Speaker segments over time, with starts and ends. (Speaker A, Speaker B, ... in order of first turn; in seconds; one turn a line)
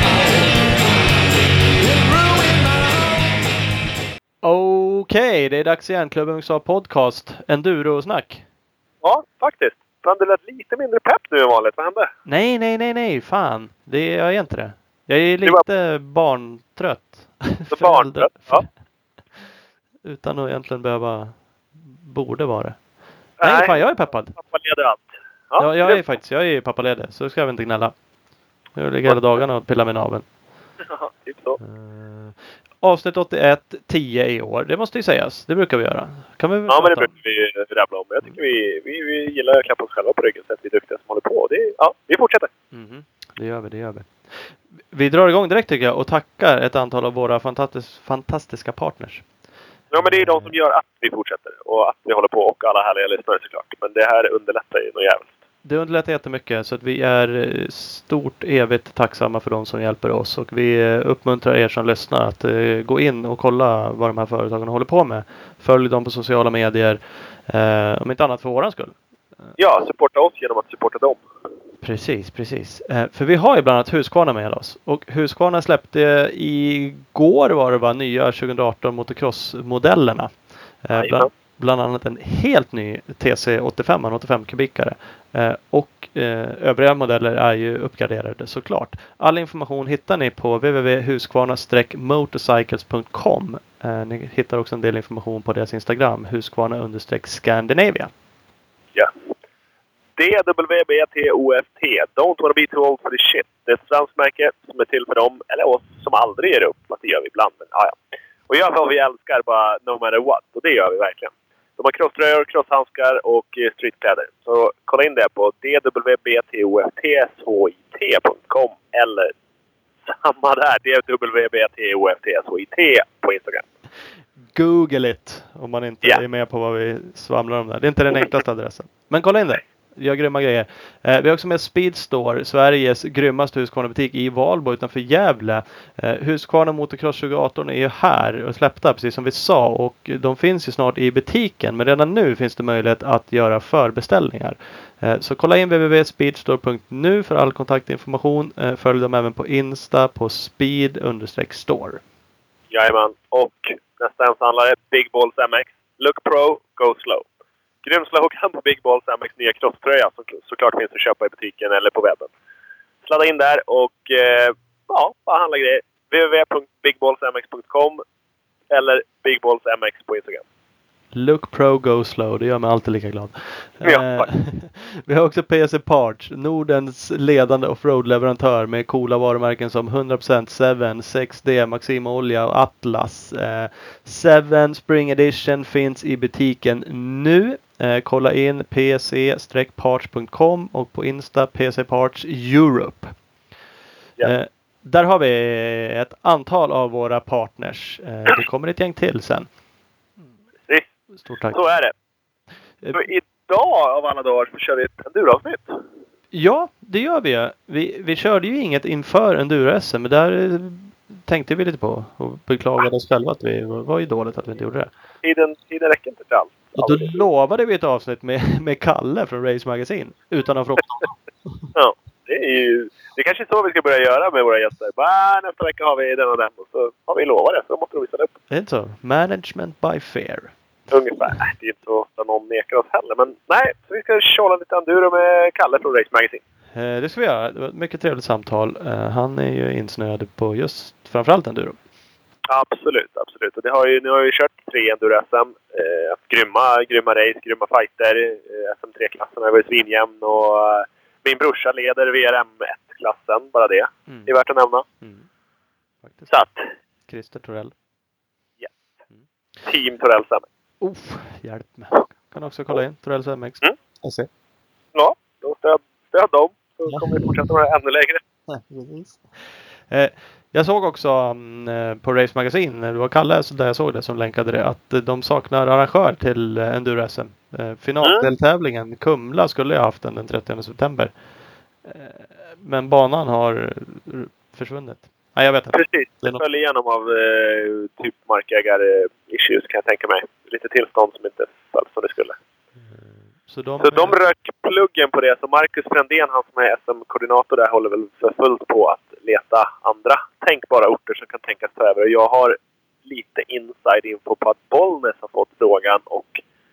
Speaker A: 4.4-8.4
Speaker B: 9.0-12.1
Speaker A: 12.2-18.7
Speaker B: 17.7-18.6
Speaker A: 20.0-24.4
Speaker B: 23.4-26.0
Speaker A: 25.6-28.0
Speaker A: 28.7-30.3
Speaker B: 30.8-31.6
Speaker A: 31.6-37.1
Speaker B: 36.7-42.5
Speaker A: 42.7-49.3
Speaker B: 49.9-55.3
Speaker A: 50.0-50.5
Speaker A: 55.6-69.5
Speaker B: 69.6-71.2
Speaker A: 71.8-98.1
Speaker B: 81.0-81.3
Speaker B: 100.2-107.9
Speaker B: 108.5-119.3
Speaker B: 120.1-123.6
Speaker A: 124.5-152.0
Speaker B: 152.7-157.2
Speaker B: 157.8-162.3
Speaker B: 163.1-168.0
Speaker B: 168.7-170.4
Speaker A: 171.1-193.2
Speaker B: 173.8-174.3
Speaker A: 194.2-199.5
Speaker A: 201.2-201.6
Speaker B: 201.5-201.9
Speaker B: 202.9-205.8
Speaker A: 206.3-214.9
Speaker B: 215.2-217.2
Speaker A: 216.8-221.6
Speaker B: 221.7-228.3
Speaker A: 228.5-230.6
Speaker B: 230.9-236.4
Speaker A: 236.7-241.8
Speaker B: 242.5-254.8
Speaker A: 254.1-254.3
Speaker A: 255.0-255.2
Speaker A: 256.1-256.3
Speaker B: 256.3-256.6
Speaker A: 257.1-257.7
Speaker B: 259.6-260.4
Speaker A: 260.8-264.3
Speaker B: 264.9-268.2
Speaker A: 266.9-267.3
Speaker A: 268.5-281.2
Speaker B: 278.0-278.3
Speaker A: 281.8-286.4
Speaker B: 285.7-292.4
Speaker A: 292.8-294.1
Speaker B: 293.8-306.4